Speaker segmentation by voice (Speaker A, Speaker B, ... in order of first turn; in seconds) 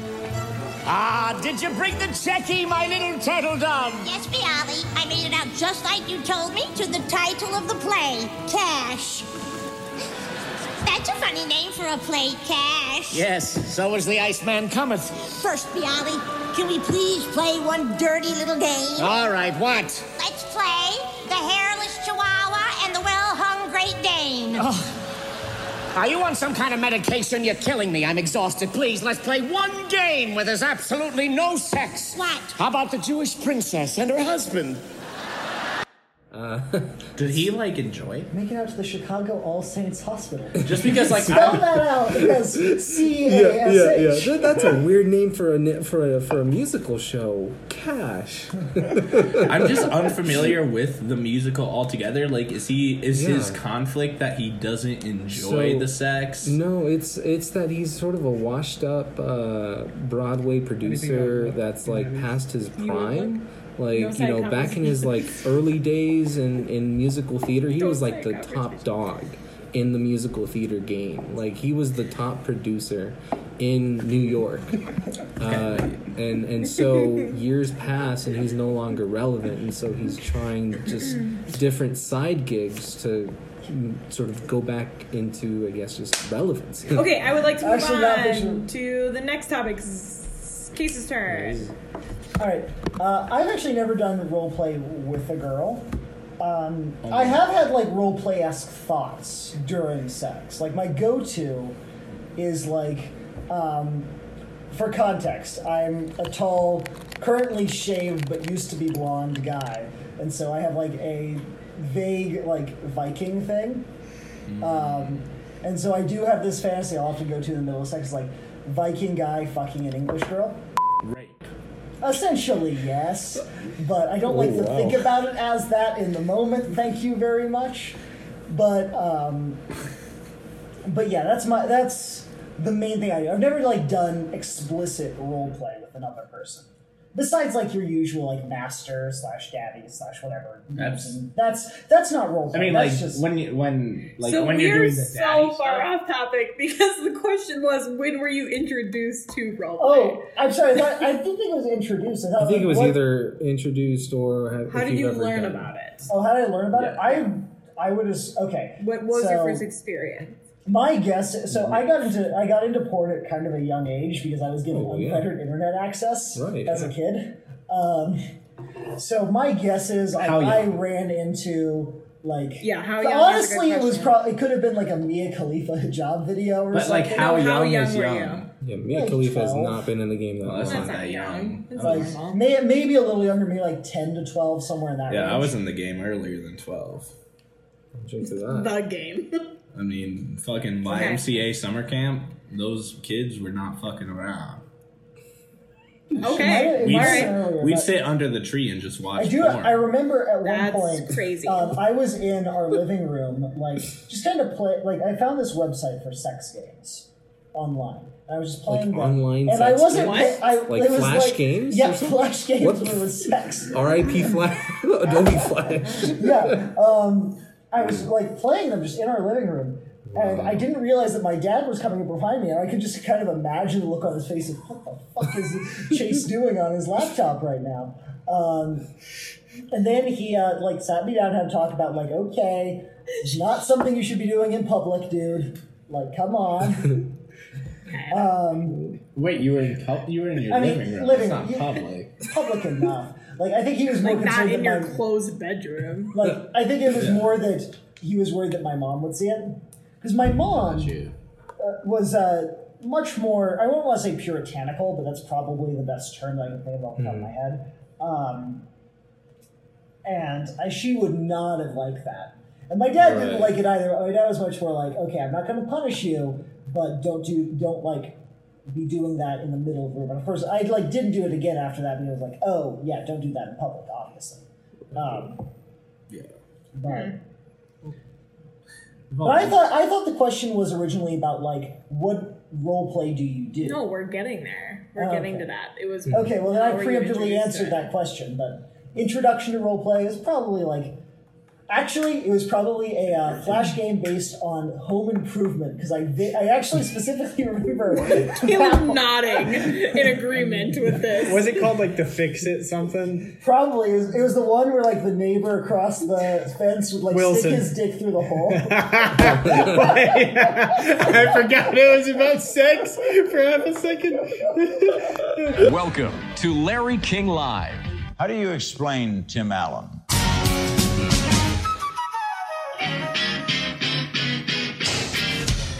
Speaker A: 0.8-4.1, 13.1-15.3, 18.9-20.1, 24.5-24.9, 25.9-34.8
Speaker B: 4.0-9.3, 10.8-13.2, 15.4-19.1, 20.2-24.6, 32.1-32.5
Speaker C: 36.3-37.2, 40.7-50.1, 53.1-53.6, 55.3-74.8, 75.4-87.2, 91.3-91.7, 124.2-125.1, 152.4-155.7, 161.5-161.8, 164.7-165.3, 166.3-166.9, 178.6-181.0, 187.9-188.8, 208.7-216.6, 217.8-218.1, 220.1-220.7, 257.0-257.3, 263.0-263.6, 309.2-309.8
Speaker D: 37.1-38.3, 40.6-41.8, 49.4-56.6, 75.4-76.0, 97.0-97.4, 114.5-115.2, 121.0-121.5, 140.8-141.2, 142.5-145.9, 156.7-157.3, 170.2-170.8, 176.7-178.5, 180.4-182.1, 185.1-187.1, 189.7-194.6, 196.2-199.8, 239.2-242.2, 246.9-247.3, 250.5-251.1, 279.1-279.6
Speaker E: 38.3-44.7, 87.6-88.7, 92.4-95.8, 96.4-101.8, 102.3-104.1, 104.7-113.8, 114.6-120.6, 122.0-128.0, 128.5-129.6, 130.8-143.2, 149.8-153.0, 156.1-159.6, 160.7-168.2, 168.9-177.5, 178.9-179.8, 181.8-185.6, 196.2-197.9, 199.2-214.3, 215.9-228.9, 229.7-237.1, 238.1-238.8, 240.5-245.0, 246.1-251.0, 251.6-258.6, 260.0-275.4, 276.8-277.1, 279.2-283.9, 284.9-285.5, 286.1-291.0, 291.7-299.7, 303.4-309.8
Speaker F: 60.8-62.4, 301.2-303.4, 307.1-307.7, 308.5-315.5
Speaker G: 62.8-65.2, 67.8-68.8, 86.9-91.6, 144.2-150.3, 154.7-156.1, 158.8-160.3, 172.6-174.2, 177.1-178.4, 180.7-182.4, 188.2-189.4, 190.8-191.2, 196.2-197.3, 200.4-201.8, 209.9-210.4, 237.9-238.2, 243.9-246.2, 276.9-277.1, 283.6-287.8, 298.0-301.5
Speaker H: 315.6-320.0